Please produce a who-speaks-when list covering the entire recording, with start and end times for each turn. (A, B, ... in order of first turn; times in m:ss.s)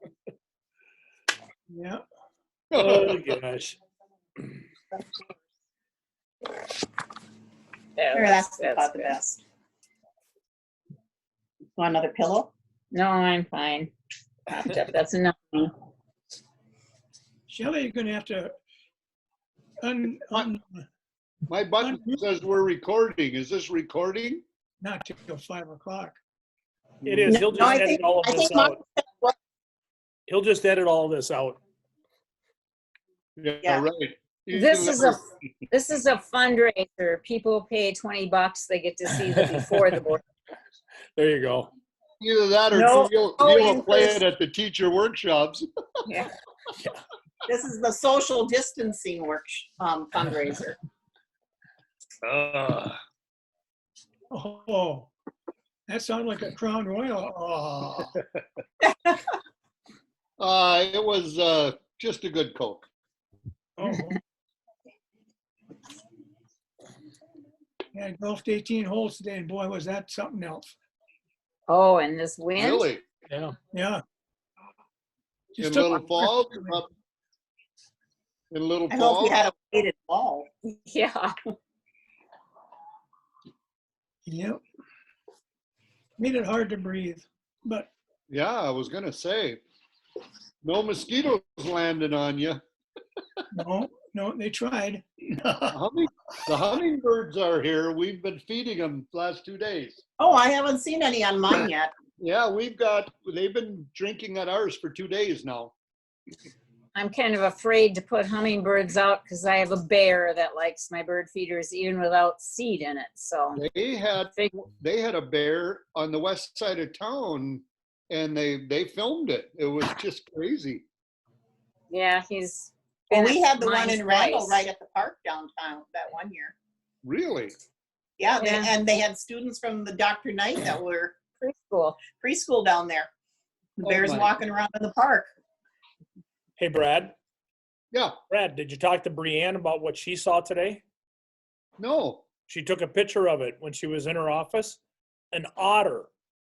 0:01.7-0:02.0 A
0:02.7-0:03.2 B
0:02.7-0:03.8 C
0:04.9-0:05.4 D
0:08.0-0:09.2 E
0:08.1-0:09.4 D
0:11.8-0:12.5 D
0:12.9-0:13.9 E
0:14.5-0:15.7 E
0:17.5-0:18.5 A
0:19.8-0:20.8 A
0:21.5-0:24.4 B
0:21.8-0:22.2 A
0:24.8-0:26.2 A
0:27.0-0:28.8 C
0:27.3-0:29.4 D
0:30.3-0:31.6 C
0:33.4-0:35.2 B
0:34.5-0:40.2 E
0:39.3-0:39.6 C
0:41.2-0:41.7 C
0:42.2-0:45.7 B
0:42.7-0:44.2 E
0:47.4-0:50.8 D
0:52.2-0:53.0 B
0:54.3-0:55.1 A
0:55.9-0:58.2 A
0:58.8-0:59.2 D
1:00.4-1:02.8 B
1:03.8-1:04.2 A
1:07.9-1:10.7 A
1:11.7-1:12.9 E
1:12.6-1:13.0 B
1:13.3-1:13.5 C
1:13.7-1:14.0 A
1:15.5-1:16.8 A
1:15.6-1:16.9 B
1:18.5-1:19.4 B
1:18.9-1:20.5 D
1:20.6-1:21.3 E
1:24.2-1:24.6 A
1:26.2-1:27.9 A
1:28.3-1:29.6 B
1:30.6-1:32.6 B
1:33.5-1:35.8 A
1:35.7-1:40.0 B
1:40.2-1:41.9 D
1:42.2-1:45.7 B
1:46.9-1:53.6 E
1:53.6-2:00.8 B
2:01.9-2:04.6 E
2:03.1-2:06.5 D
2:07.0-2:07.6 B
2:08.2-2:11.1 D
2:08.4-2:08.7 E
2:11.4-2:12.0 E
2:12.2-2:13.1 D
2:13.8-2:15.3 D
2:13.8-2:14.4 B
2:16.6-2:17.1 C
2:18.3-2:20.8 C
2:21.8-2:22.2 B
2:22.5-2:24.8 C
2:25.3-2:26.1 C